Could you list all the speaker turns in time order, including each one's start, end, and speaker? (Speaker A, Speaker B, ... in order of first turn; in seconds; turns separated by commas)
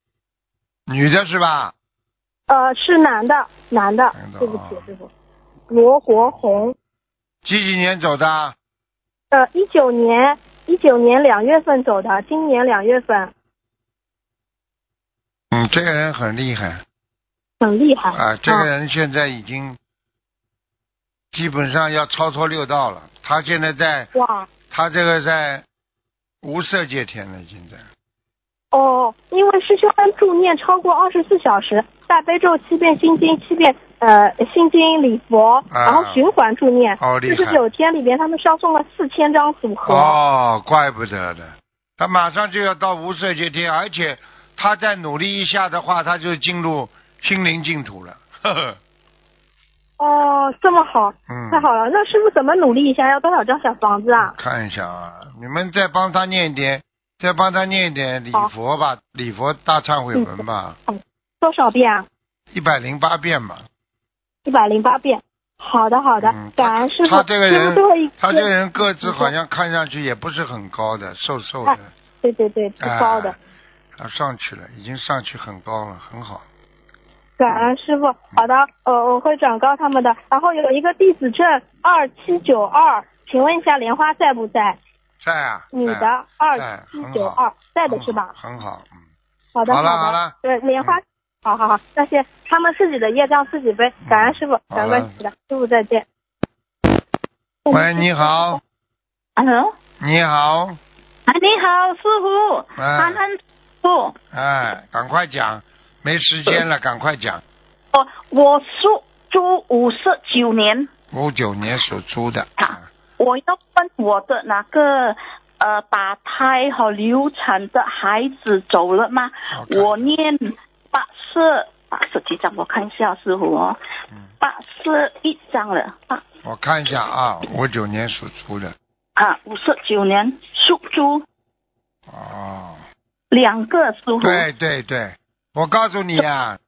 Speaker A: 0.9-1.7, Speaker B: 2.5-5.1, Speaker A: 4.1-4.8, Speaker B: 5.7-6.8, Speaker A: 7.4-8.6, Speaker B: 9.3-13.3, Speaker A: 15.5-16.8, Speaker B: 17.6-18.7, Speaker A: 18.1-19.8, Speaker A: 21.3-24.1, Speaker B: 24.1-24.5, Speaker A: 24.7-25.6, Speaker A: 26.4-27.9, Speaker B: 28.7-40.2, Speaker A: 35.7-36.3, Speaker A: 37.0-37.6, Speaker A: 39.8-48.8, Speaker B: 50.0-54.3, Speaker A: 51.3-51.7, Speaker A: 54.2-60.8, Speaker B: 60.1-62.1, Speaker A: 62.5-63.6, Speaker B: 64.5-69.3, Speaker A: 66.2-71.8, Speaker B: 71.7-73.4, Speaker A: 72.8-73.3, Speaker A: 74.0-76.5, Speaker B: 77.4-84.8, Speaker A: 85.2-88.9, Speaker B: 85.7-88.3, Speaker B: 89.5-96.0, Speaker A: 89.7-91.0, Speaker A: 94.0-95.2, Speaker B: 97.7-98.6, Speaker A: 97.7-98.6, Speaker C: 99.4-99.7, Speaker A: 100.0-100.8, Speaker C: 101.3-104.2, Speaker A: 102.8-103.2, Speaker A: 104.3-107.4, Speaker C: 107.9-110.9, Speaker A: 111.1-112.9, Speaker C: 112.6-123.8, Speaker A: 119.5-120.2, Speaker C: 124.4-126.2, Speaker A: 126.4-128.8, Speaker C: 129.2-131.2, Speaker A: 132.1-132.8, Speaker C: 133.3-134.5, Speaker A: 134.2-136.6